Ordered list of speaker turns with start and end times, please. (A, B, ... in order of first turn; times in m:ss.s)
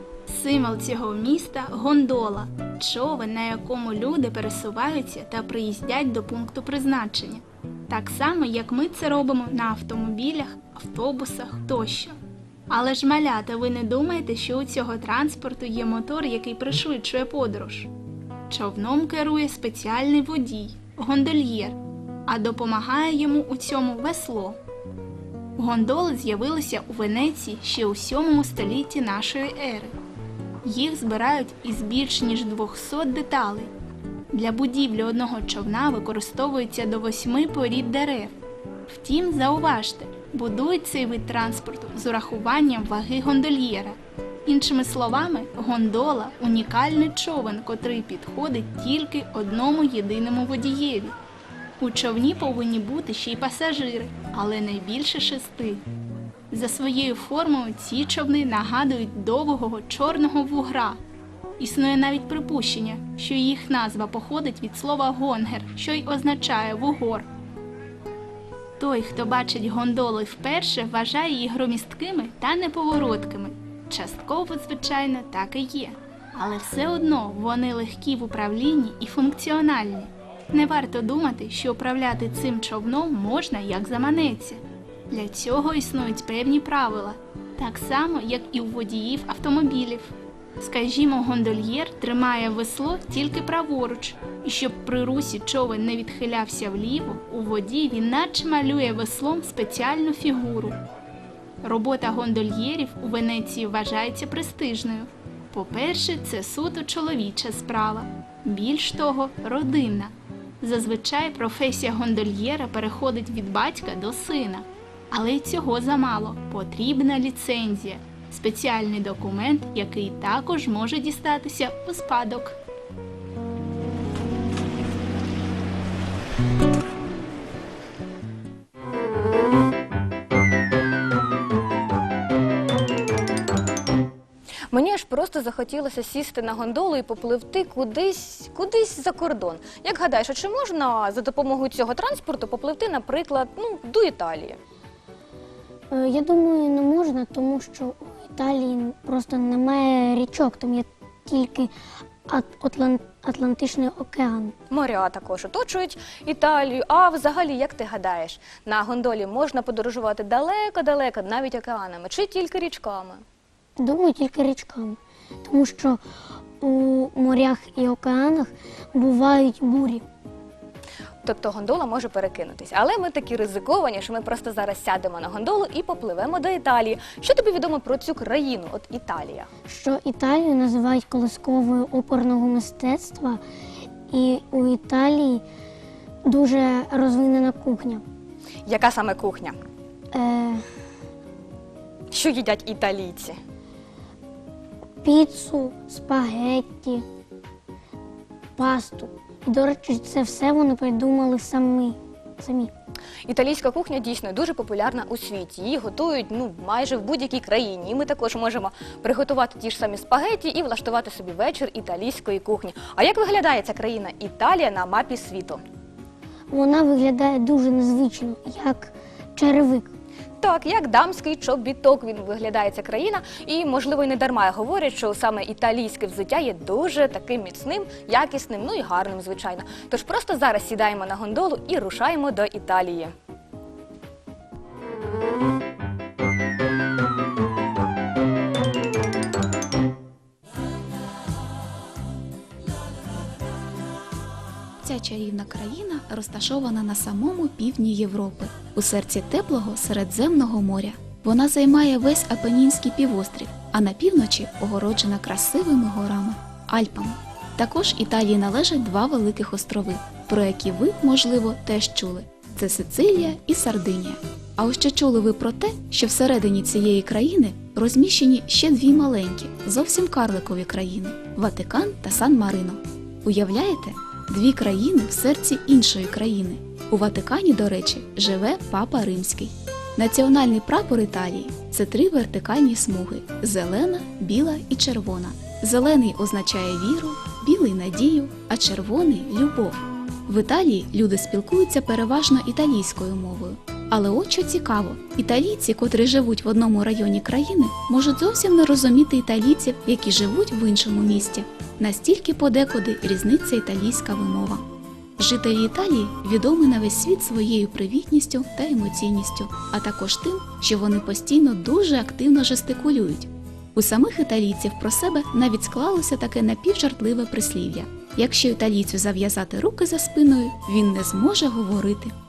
0:00.3-0:12.2 A
0:12.7-0:17.9 A
0:18.5-0:24.6 A
0:25.6-0:29.9 A
0:30.6-0:33.7 A
0:34.3-0:38.3 A
0:38.9-0:51.2 A
0:51.8-0:55.8 A
0:56.5-1:01.0 A
1:01.6-1:07.3 A
1:08.8-1:40.8 A
1:41.6-2:02.6 A
2:14.7-2:24.6 B
2:25.9-2:31.7 C
2:32.3-2:34.5 C
2:34.7-2:43.2 B
2:43.8-2:46.0 C
2:46.6-2:50.0 C
2:51.2-2:59.5 B
2:59.7-3:03.4 C
3:04.1-3:05.4 C
3:06.2-3:08.0 C
3:08.6-3:09.6 B
3:10.1-3:10.6 C
3:12.1-3:13.4 B
3:15.0-3:17.0 C
3:18.6-3:22.7 C
3:23.3-3:35.6 B
3:36.5-3:39.9 C
3:40.4-3:53.1 B
4:04.8-5:04.6 D
5:05.2-5:22.1 D